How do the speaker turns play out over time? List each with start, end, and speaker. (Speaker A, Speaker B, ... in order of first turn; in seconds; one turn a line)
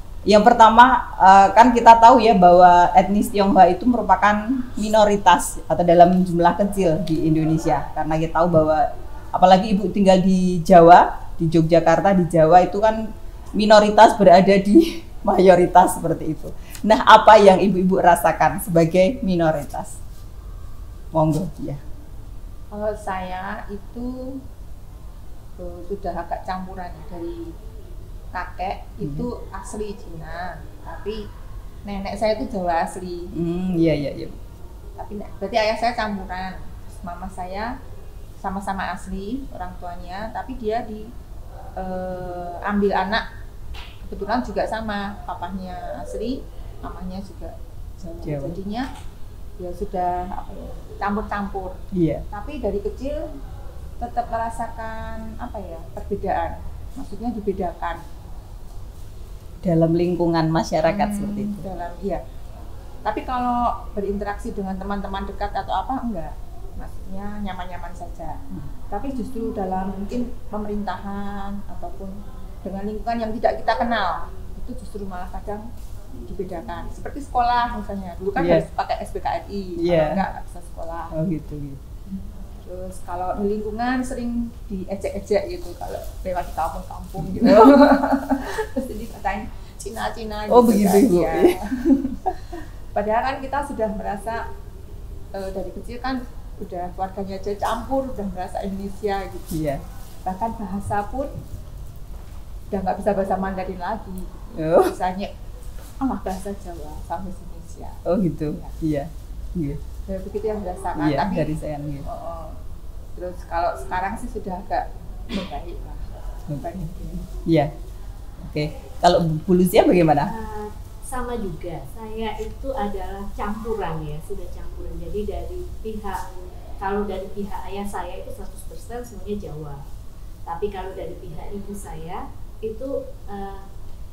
Speaker A: 0.3-13.0
Speaker A: 13.6-20.0
Speaker A: 21.1-21.8
Speaker B: 22.7-24.4
Speaker B: 25.6-27.5
Speaker B: 28.3-31.3
Speaker A: 29.0-29.3
Speaker B: 31.9-33.3
Speaker A: 33.3-34.4
Speaker B: 35.0-37.8
Speaker B: 38.4-41.1
Speaker B: 41.8-43.2
Speaker B: 44.0-47.5
Speaker A: 48.0-48.6
Speaker B: 48.2-48.9
Speaker B: 49.6-51.8
Speaker A: 51.9-52.2
Speaker B: 52.3-53.2
Speaker B: 54.0-58.0
Speaker A: 59.6-61.6
Speaker B: 60.9-62.2
Speaker B: 63.0-75.7
Speaker B: 76.2-81.2
Speaker A: 78.4-78.7
Speaker A: 79.8-80.2
Speaker A: 81.1-81.8
Speaker B: 82.6-92.3
Speaker A: 87.2-87.8
Speaker A: 90.5-91.6
Speaker B: 92.9-94.5
Speaker B: 95.3-99.5
Speaker A: 99.5-99.8
Speaker B: 100.2-101.3
Speaker B: 102.7-105.3
Speaker A: 104.5-104.9
Speaker B: 106.0-108.0
Speaker A: 108.1-109.8
Speaker B: 110.1-111.5
Speaker A: 111.0-112.1
Speaker B: 112.1-112.6
Speaker B: 113.2-116.1
Speaker A: 116.5-117.7
Speaker B: 116.6-117.2
Speaker A: 118.4-120.3
Speaker C: 120.3-126.2
Speaker C: 126.8-129.8
Speaker C: 130.5-133.7